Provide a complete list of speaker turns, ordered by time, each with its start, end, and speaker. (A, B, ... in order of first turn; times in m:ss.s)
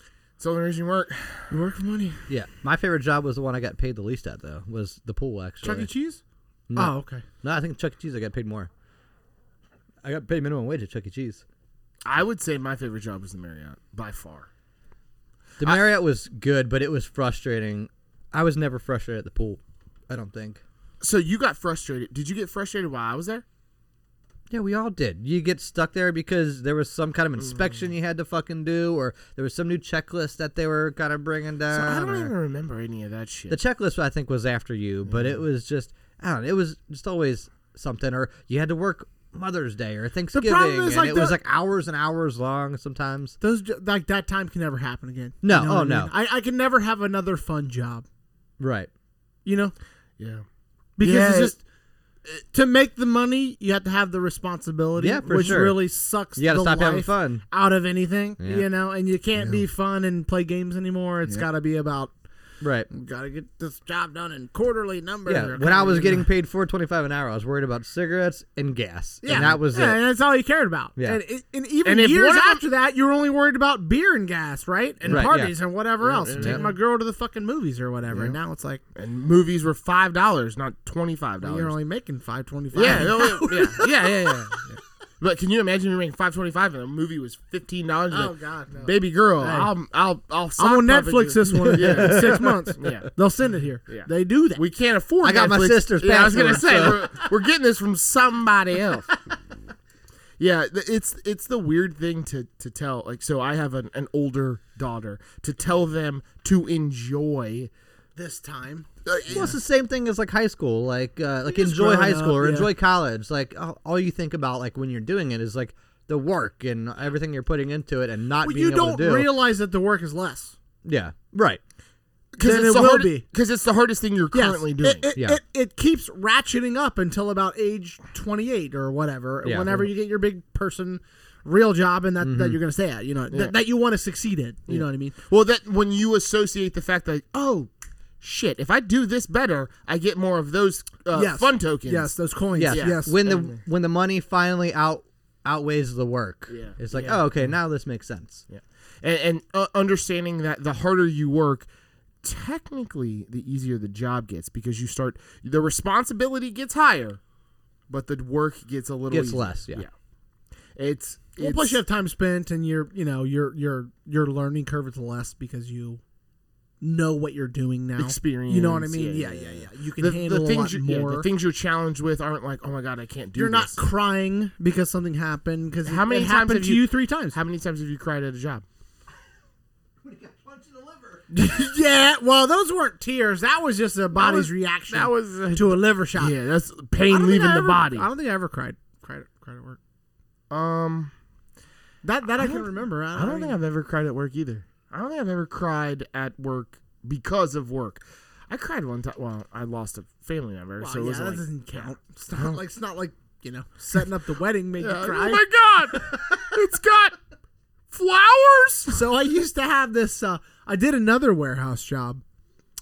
0:00.4-0:01.5 A
0:01.5-0:02.2 B
0:02.3-0:05.9 C
0:05.6-0:06.2 B
0:06.7-0:08.7 C
0:06.8-0:07.2 B
0:10.0-0:11.4 C
0:12.0-0:14.5 A
0:15.6-0:20.6 C
0:21.0-0:23.4 A
0:24.5-0:32.3 C
0:31.7-0:33.6 A
0:33.5-0:43.4 C
0:35.1-0:35.4 A
0:40.3-0:41.4 B
0:43.4-0:48.0 B
0:45.4-0:46.1 C
0:48.6-0:48.9 C
0:49.4-0:49.8 B
0:50.2-0:50.5 A
0:51.0-0:51.6 B
0:51.0-0:51.6 A
0:52.5-1:02.1 B
0:55.0-0:55.8 C
0:56.4-0:57.4 C
0:58.4-0:58.7 C
0:59.4-0:59.6 A
1:02.6-1:02.9 C
1:02.9-1:06.3 B
1:05.3-1:10.0 C
1:09.2-1:18.8 B
1:09.3-1:09.6 A
1:11.8-1:12.6 A
1:15.1-1:15.6 C
1:16.0-1:16.8 A
1:16.4-1:16.6 C
1:18.1-1:18.4 A
1:19.0-1:21.7 A
1:21.4-1:24.7 B
1:22.7-1:24.6 A
1:25.2-1:33.1 A
1:28.1-1:29.7 B
1:30.6-1:34.6 B
1:31.6-1:32.7 C
1:33.9-1:39.1 A
1:35.2-1:37.1 C
1:40.4-1:47.7 A
1:48.2-1:49.5 B
1:49.0-1:49.5 A
1:49.3-1:59.3 C
1:51.5-1:52.7 B
1:58.4-2:00.6 B
2:00.8-2:01.6 C
2:02.3-2:05.1 A
2:02.4-2:03.2 B
2:04.3-2:15.2 B
2:09.4-2:09.7 C
2:12.2-2:12.6 C
2:14.7-2:22.2 A
2:21.1-2:23.2 B
2:22.6-2:28.4 C
2:22.7-2:23.6 A
2:26.5-2:27.5 A
2:28.5-2:31.7 A
2:32.2-2:37.2 A
2:37.9-2:39.9 A
2:39.1-2:39.8 C
2:40.8-2:41.8 A
2:41.4-2:46.0 B
2:46.8-2:51.3 B
2:48.0-2:53.8 A
2:53.4-2:57.4 B
2:55.8-2:58.6 A
3:00.0-3:01.2 C
3:01.3-3:06.4 B
3:04.1-3:08.1 A
3:07.1-3:09.8 B
3:10.5-3:11.1 A
3:12.0-3:13.6 B
3:12.4-3:21.8 A
3:20.8-3:25.5 B
3:22.4-3:22.6 A
3:24.8-3:27.2 A
3:27.9-3:29.0 A
3:28.9-3:32.2 B